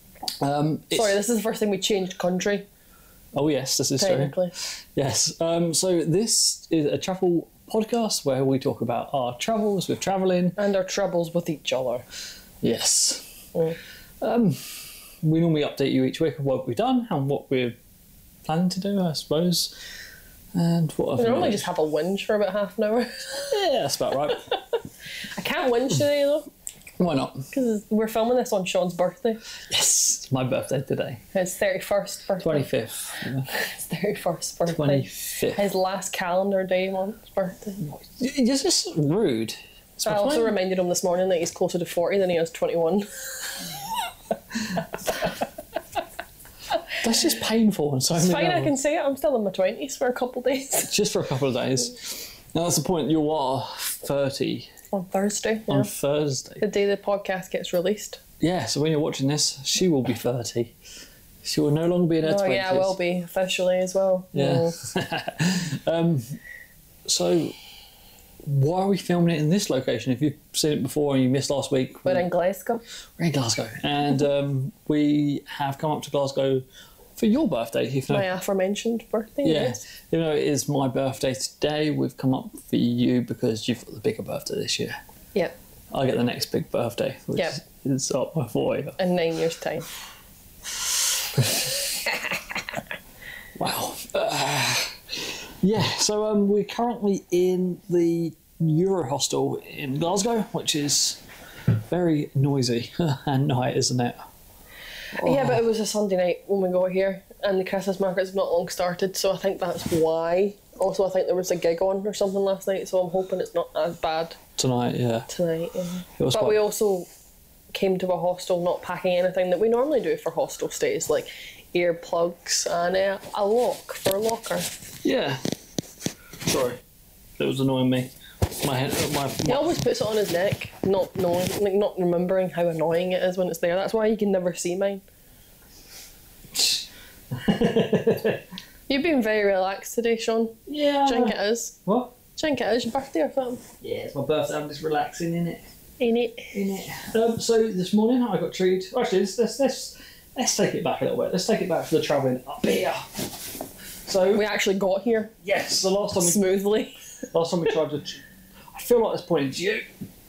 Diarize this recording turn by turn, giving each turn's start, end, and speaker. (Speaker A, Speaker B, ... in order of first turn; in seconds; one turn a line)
Speaker A: 0.4-1.2
Speaker B: 0.9-2.6
Speaker A: 3.3-10.6
Speaker B: 4.0-4.5
Speaker B: 10.6-12.0
Speaker A: 12.6-13.3
Speaker A: 14.2-17.8
Speaker A: 18.4-19.7
Speaker A: 20.5-21.7
Speaker B: 21.2-23.6
Speaker A: 23.5-24.4
Speaker B: 25.4-26.5
Speaker A: 27.0-27.5
Speaker B: 27.5-29.4
Speaker A: 29.7-31.2
Speaker B: 31.3-32.7
Speaker A: 32.4-33.5
Speaker B: 33.5-37.8
Speaker A: 34.6-35.6
Speaker A: 37.8-40.5
Speaker B: 40.0-43.7
Speaker A: 47.0-48.7
Speaker B: 48.1-50.9
Speaker A: 50.9-54.7
Speaker B: 54.9-55.9
Speaker A: 55.7-56.6
Speaker B: 56.6-58.2
Speaker A: 58.4-60.7
Speaker A: 61.4-63.0
Speaker B: 62.2-64.8
Speaker A: 64.3-66.3
Speaker A: 67.0-67.5
Speaker A: 68.4-72.3
Speaker B: 72.0-72.8
Speaker A: 73.2-76.6
Speaker A: 77.2-78.3
Speaker B: 78.1-79.8
Speaker A: 79.4-85.0
Speaker A: 85.9-89.0
Speaker B: 89.0-89.8
Speaker A: 91.4-91.6
Speaker A: 93.6-101.2
Speaker A: 101.7-104.2
Speaker A: 105.2-105.6
Speaker B: 105.2-114.4
Speaker A: 114.6-115.3
Speaker B: 115.3-117.1
Speaker A: 116.2-116.6
Speaker B: 117.7-124.7
Speaker A: 125.0-125.4
Speaker A: 126.4-126.8
Speaker A: 127.4-129.7
Speaker B: 129.4-135.0
Speaker A: 136.5-138.4
Speaker B: 138.9-141.8
Speaker A: 140.7-142.1
Speaker B: 142.3-143.6
Speaker A: 143.8-145.7
Speaker B: 146.0-146.6
Speaker A: 146.5-153.3
Speaker A: 154.1-154.4
Speaker B: 154.3-155.3
Speaker A: 155.4-156.4
Speaker B: 156.2-157.0
Speaker A: 157.3-158.2
Speaker A: 158.7-159.9